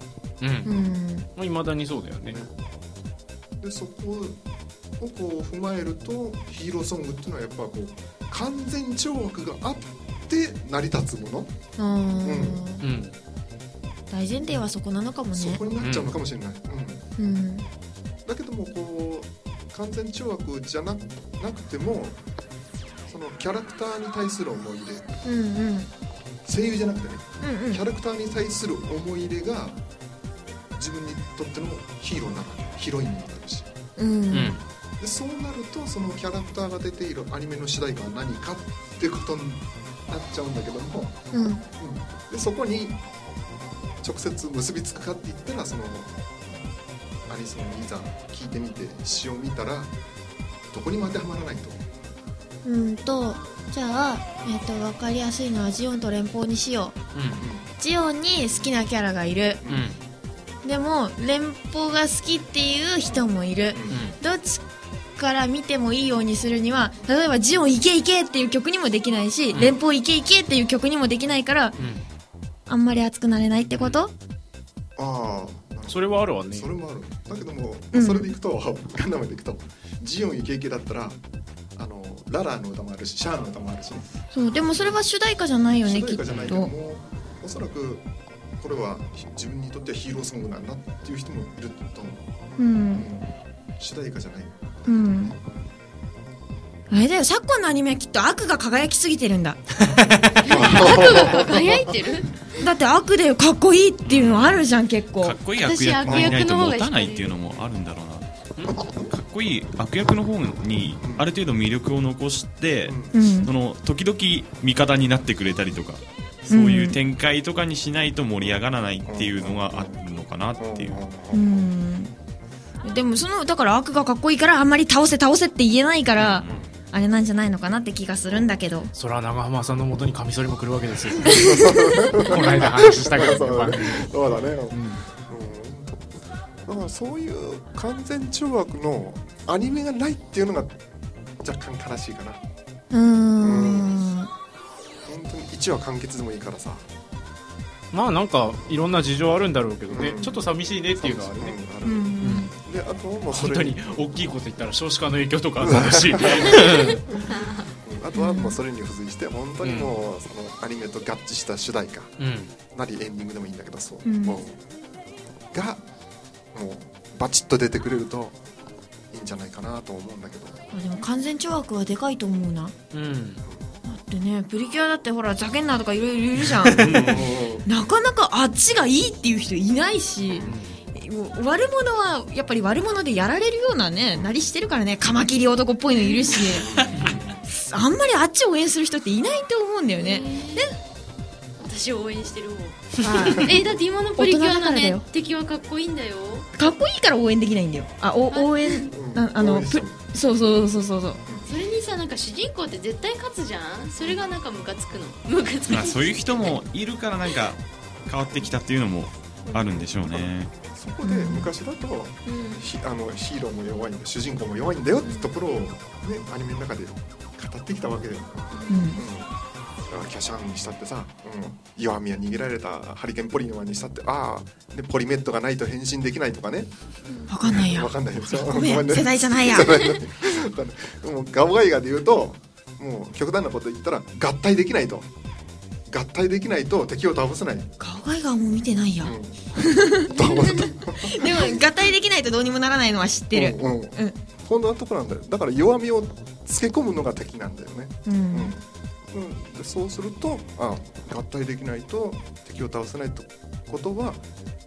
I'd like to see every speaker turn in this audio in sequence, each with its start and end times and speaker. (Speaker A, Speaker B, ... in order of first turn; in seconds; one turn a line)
Speaker A: 0.4-0.7
Speaker B: 0.7-1.0
Speaker C: 0.7-1.3
Speaker A: 1.4-2.4
Speaker B: 2.3-2.5
Speaker B: 3.6-4.4
Speaker B: 5.0-11.5
Speaker C: 11.8-12.8
Speaker B: 12.2-12.7
Speaker A: 12.8-13.2
Speaker C: 14.1-15.6
Speaker B: 15.3-17.1
Speaker A: 15.8-16.1
Speaker C: 17.2-17.7
Speaker B: 18.2-22.2
Speaker B: 23.1-25.2
Speaker C: 25.2-25.9
Speaker B: 26.4-29.8
Speaker C: 27.4-27.8
Speaker B: 30.8-33.7
Speaker C: 34.0-34.6
Speaker A: 34.3-34.6
Speaker B: 35.0-41.2
Speaker C: 41.3-41.6
Speaker B: 41.8-43.0
Speaker B: 44.0-46.1
Speaker B: 47.3-49.9
Speaker B: 50.7-51.8
Speaker C: 52.6-57.0
Speaker A: 57.1-57.4
Speaker B: 57.4-57.7
Speaker C: 57.8-59.6
Speaker B: 59.6-59.9
Speaker A: 59.7-60.0
Speaker C: 60.6-64.7
Speaker B: 63.1-64.0
Speaker A: 63.9-64.2
Speaker C: 65.2-71.8
Speaker C: 72.7-74.1
Speaker B: 75.0-81.2
Speaker A: 75.9-76.7
Speaker C: 77.9-78.3
Speaker B: 81.8-84.1
Speaker C: 84.3-86.7
Speaker B: 84.7-85.0
Speaker B: 85.8-88.1
Speaker B: 88.6-92.3
Speaker C: 92.6-93.1
Speaker B: 92.9-95.4
Speaker C: 94.9-95.3
Speaker C: 96.9-99.6
Speaker A: 99.8-100.5
Speaker B: 100.4-102.2
Speaker D: 100.5-102.4
Speaker C: 102.6-105.4
Speaker E: 104.1-104.7
Speaker E: 105.2-108.3
Speaker D: 105.6-107.4
Speaker B: 106.0-106.4
Speaker B: 108.8-109.0
Speaker E: 109.0-121.2
Speaker B: 112.9-113.2
Speaker C: 113.1-113.5
Speaker C: 116.5-117.0
Speaker B: 119.0-120.0
Speaker B: 120.6-121.7
Speaker C: 121.3-122.1
Speaker C: 122.8-128.9
Speaker B: 126.2-126.7
Speaker A: 128.9-134.1
Speaker B: 131.2-136.1
Speaker C: 131.3-132.6
Speaker A: 134.7-135.0
Speaker B: 136.7-140.8
Speaker B: 141.4-142.4
Speaker C: 142.9-144.3
Speaker B: 143.4-144.0
Speaker B: 145.1-146.9
Speaker A: 147.9-151.6
Speaker B: 149.9-150.4
Speaker B: 151.0-154.4
Speaker C: 151.8-152.5
Speaker A: 152.2-152.5
Speaker A: 153.3-157.1
Speaker B: 155.6-162.1
Speaker C: 158.2-158.6
Speaker A: 159.6-159.9
Speaker A: 162.2-162.5
Speaker B: 162.7-164.6
Speaker C: 164.1-164.4
Speaker B: 165.5-165.8
Speaker B: 166.5-168.4
Speaker B: 169.1-170.7
Speaker C: 170.7-172.8
Speaker A: 172.9-173.4
Speaker C: 173.9-186.7
Speaker A: 176.7-177.2
Speaker B: 176.8-177.7
Speaker B: 180.3-180.8
Speaker B: 186.3-187.4
Speaker C: 187.5-190.7
Speaker D: 190.0-190.7
Speaker D: 191.6-196.5
Speaker C: 193.0-193.5
Speaker C: 194.2-195.0
Speaker C: 196.6-201.2
Speaker D: 198.3-198.8
Speaker B: 198.9-200.6
Speaker D: 201.5-206.5
Speaker B: 204.0-204.3
Speaker E: 205.7-210.5
Speaker B: 209.5-219.3
Speaker C: 211.0-211.5
Speaker D: 212.3-212.7
Speaker D: 215.0-215.3
Speaker D: 218.5-218.9
Speaker C: 218.7-219.0
Speaker B: 219.9-226.7
Speaker C: 227.3-230.0
Speaker B: 227.4-235.1
Speaker B: 235.9-237.7
Speaker C: 237.8-240.1
Speaker B: 239.0-241.6
Speaker D: 240.2-240.8
Speaker C: 241.0-244.2
Speaker B: 243.3-254.2
Speaker C: 248.1-248.5